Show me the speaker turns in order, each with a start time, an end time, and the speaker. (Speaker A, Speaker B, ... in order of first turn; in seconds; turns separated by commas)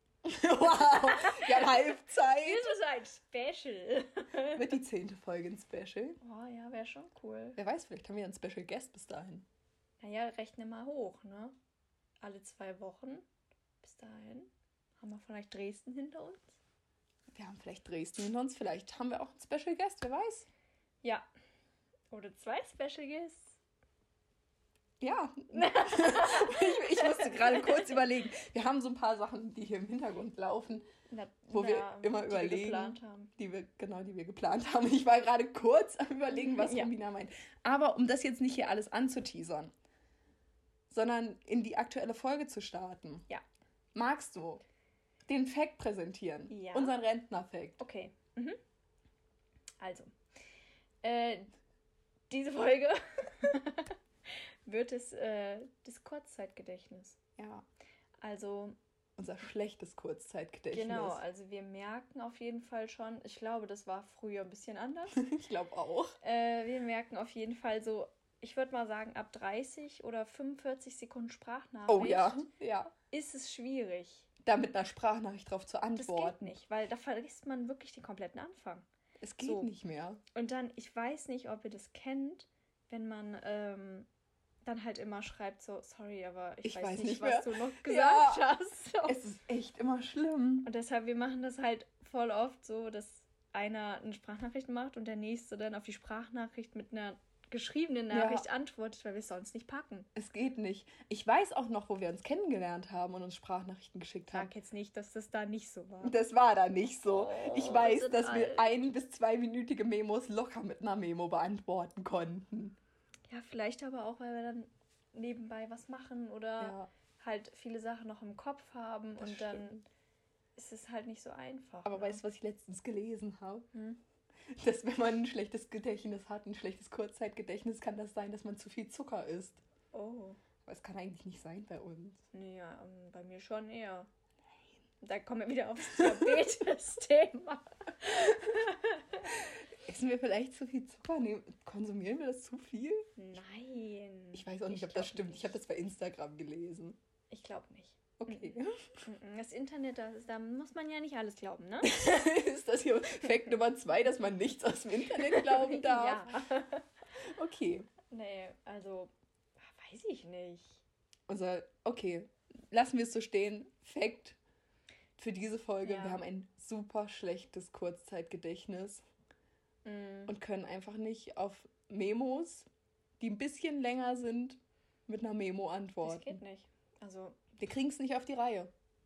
Speaker A: 0.2-2.8, Speaker B: 0.6-4.8, Speaker A: 4.5-6.2, Speaker B: 6.2-7.6, Speaker A: 7.5-9.4, Speaker B: 10.0-11.5, Speaker B: 12.2-13.2, Speaker B: 13.8-14.5, Speaker B: 15.0-16.6, Speaker A: 17.3-20.5, Speaker B: 22.1-23.6, Speaker A: 25.0-30.9, Speaker B: 25.5-28.0, Speaker B: 31.1-33.3, Speaker A: 31.5-39.7, Speaker B: 36.3-36.9, Speaker A: 40.9-43.2, Speaker A: 43.9-44.6, Speaker A: 45.3-47.8, Speaker B: 46.5-47.0, Speaker B: 47.8-48.6, Speaker B: 49.8-50.1, Speaker B: 51.0-51.5, Speaker B: 52.3-57.2, Speaker A: 57.4-57.6, Speaker B: 58.2-58.8, Speaker A: 59.2-61.2, Speaker B: 60.7-65.2, Speaker A: 65.1-66.2, Speaker B: 66.2-72.5, Speaker A: 71.9-72.9, Speaker B: 73.0-74.3, Speaker A: 74.4-76.5, Speaker B: 76.0-78.8, Speaker A: 79.2-80.2, Speaker B: 79.4-79.7, Speaker B: 80.3-84.1, Speaker B: 84.6-89.2, Speaker A: 86.6-88.5, Speaker A: 89.0-90.7, Speaker B: 90.6-100.1, Speaker A: 98.1-98.5, Speaker A: 100.1-104.5, Speaker B: 104.3-106.2, Speaker A: 106.0-112.8, Speaker B: 107.0-108.7, Speaker B: 113.3-119.8, Speaker A: 116.6-116.9, Speaker A: 119.2-119.8, Speaker B: 120.5-122.2, Speaker A: 121.8-123.7, Speaker B: 123.7-124.0, Speaker A: 124.5-129.6, Speaker B: 129.9-130.4, Speaker A: 130.7-132.2, Speaker B: 132.3-134.1, Speaker B: 135.0-139.3, Speaker A: 136.0-136.4, Speaker A: 138.3-138.5, Speaker A: 139.2-143.1, Speaker B: 143.2-145.6, Speaker A: 144.3-147.0, Speaker B: 147.3-151.9, Speaker A: 148.2-149.0, Speaker A: 151.8-156.2, Speaker B: 155.1-156.9, Speaker A: 157.2-157.9, Speaker B: 158.1-160.8, Speaker A: 161.3-164.4, Speaker A: 165.2-169.0, Speaker B: 165.8-166.2, Speaker B: 169.8-170.3, Speaker A: 170.3-172.7, Speaker A: 173.2-176.4, Speaker B: 176.0-177.4, Speaker A: 177.6-178.7